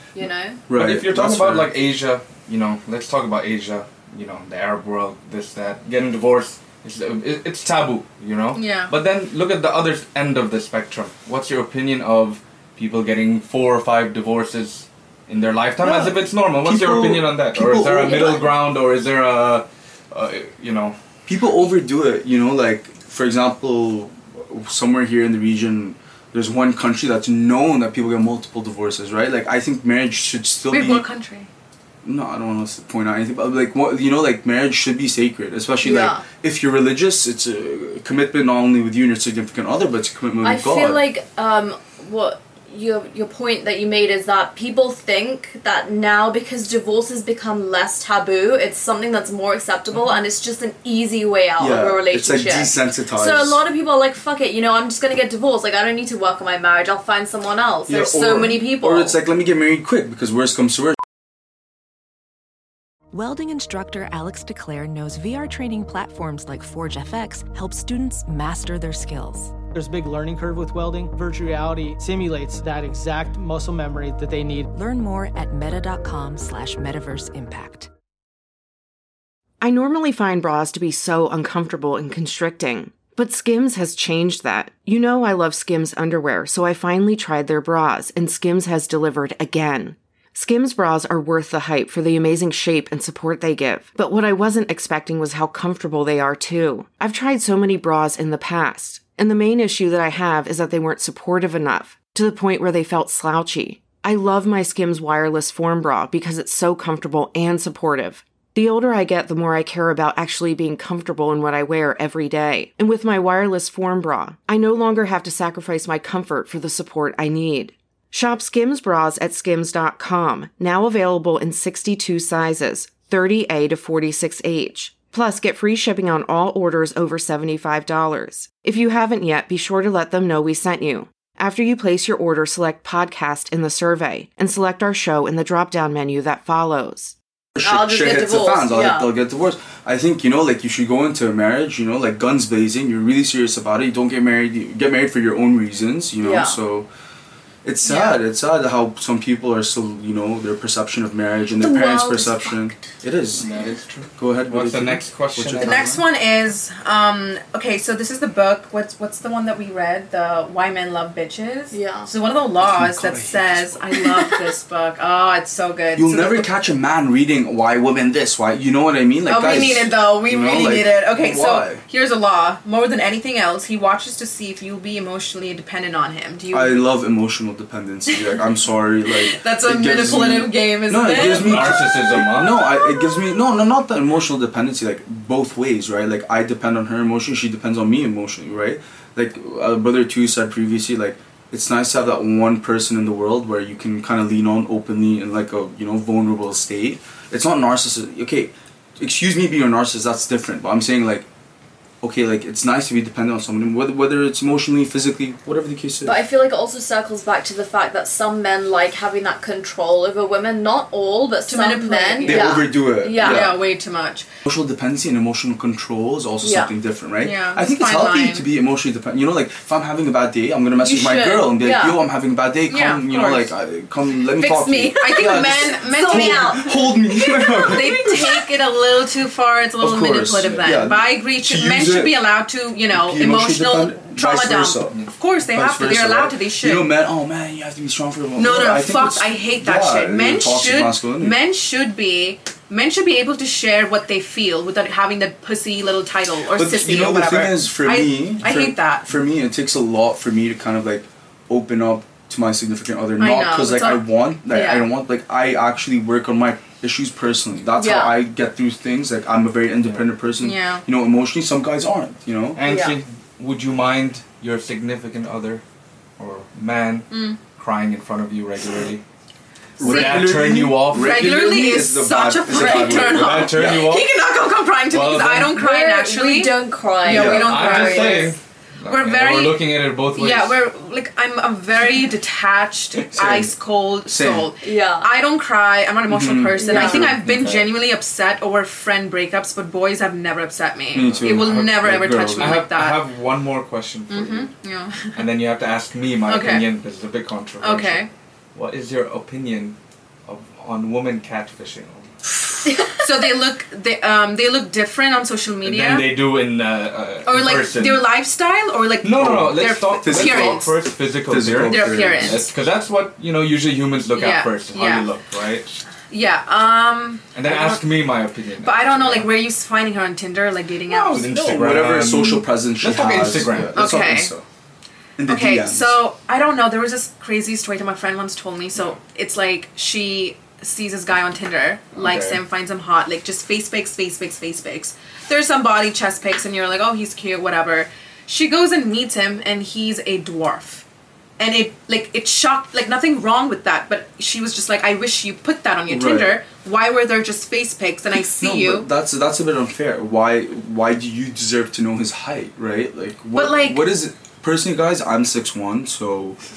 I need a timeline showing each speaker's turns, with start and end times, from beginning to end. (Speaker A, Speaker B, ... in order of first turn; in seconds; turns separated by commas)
Speaker A: 0.1-0.7, Speaker B: 0.7-1.7, Speaker C: 0.7-21.0, Speaker D: 8.6-8.9, Speaker B: 15.8-18.6, Speaker B: 21.3-31.1, Speaker D: 30.7-31.5, Speaker B: 32.0-41.1, Speaker A: 35.8-36.3, Speaker A: 40.4-59.2, Speaker B: 51.6-53.6, Speaker B: 57.9-61.0, Speaker E: 63.1-69.6, Speaker F: 69.7-74.7, Speaker E: 74.7-77.9, Speaker G: 79.6-137.2, Speaker B: 137.6-146.9, Speaker A: 137.6-139.1, Speaker A: 146.2-146.6, Speaker B: 147.6-153.5, Speaker D: 147.8-148.2, Speaker A: 151.6-152.7, Speaker C: 153.4-156.0, Speaker B: 154.2-156.0, Speaker D: 155.6-166.5, Speaker A: 161.7-162.1, Speaker B: 162.6-163.8, Speaker B: 166.0-171.8, Speaker D: 169.3-176.8, Speaker B: 176.5-201.3, Speaker D: 179.1-181.8, Speaker C: 181.2-182.7, Speaker B: 202.0-206.2, Speaker A: 206.0-213.5, Speaker D: 211.5-214.3, Speaker B: 212.2-213.6, Speaker B: 214.4-228.2, Speaker A: 216.4-216.7, Speaker D: 217.2-218.5, Speaker A: 220.8-222.0, Speaker D: 222.7-223.5, Speaker D: 224.4-236.9, Speaker A: 224.5-228.4, Speaker B: 229.8-232.2, Speaker B: 232.9-235.0, Speaker B: 235.5-241.4, Speaker D: 238.4-249.1, Speaker B: 246.5-262.6, Speaker D: 253.2-254.9, Speaker A: 257.7-258.2, Speaker D: 260.4-260.8, Speaker C: 262.6-265.6, Speaker A: 262.6-263.0, Speaker C: 266.2-269.0, Speaker D: 267.1-267.4, Speaker B: 269.8-273.9, Speaker C: 269.8-271.3, Speaker D: 269.9-270.2, Speaker D: 270.9-278.4, Speaker A: 272.5-273.2, Speaker C: 273.1-274.1, Speaker C: 274.9-275.6, Speaker A: 275.6-278.3, Speaker C: 277.1-280.6, Speaker B: 277.1-277.7, Speaker D: 278.9-293.0, Speaker B: 283.1-283.5, Speaker B: 284.1-284.5, Speaker A: 284.6-285.1, Speaker B: 286.1-287.2, Speaker A: 286.6-287.1, Speaker C: 286.8-287.7, Speaker B: 290.9-292.7, Speaker C: 291.0-291.6, Speaker C: 292.4-294.5, Speaker D: 294.1-295.2, Speaker C: 295.1-302.1, Speaker D: 296.3-296.6, Speaker D: 297.6-298.1, Speaker D: 302.9-306.1, Speaker C: 305.6-308.1, Speaker D: 307.3-310.7, Speaker C: 309.0-315.8, Speaker B: 309.1-312.4, Speaker D: 311.6-312.5, Speaker D: 314.1-315.1, Speaker D: 316.1-317.8, Speaker C: 317.3-319.3, Speaker D: 318.6-321.4, Speaker C: 320.9-323.9, Speaker B: 321.0-324.4, Speaker D: 323.7-324.3, Speaker B: 325.2-326.0, Speaker D: 325.3-340.8, Speaker C: 331.9-332.4, Speaker D: 341.4-348.9, Speaker B: 345.9-346.4, Speaker B: 348.4-356.4, Speaker D: 353.3-353.9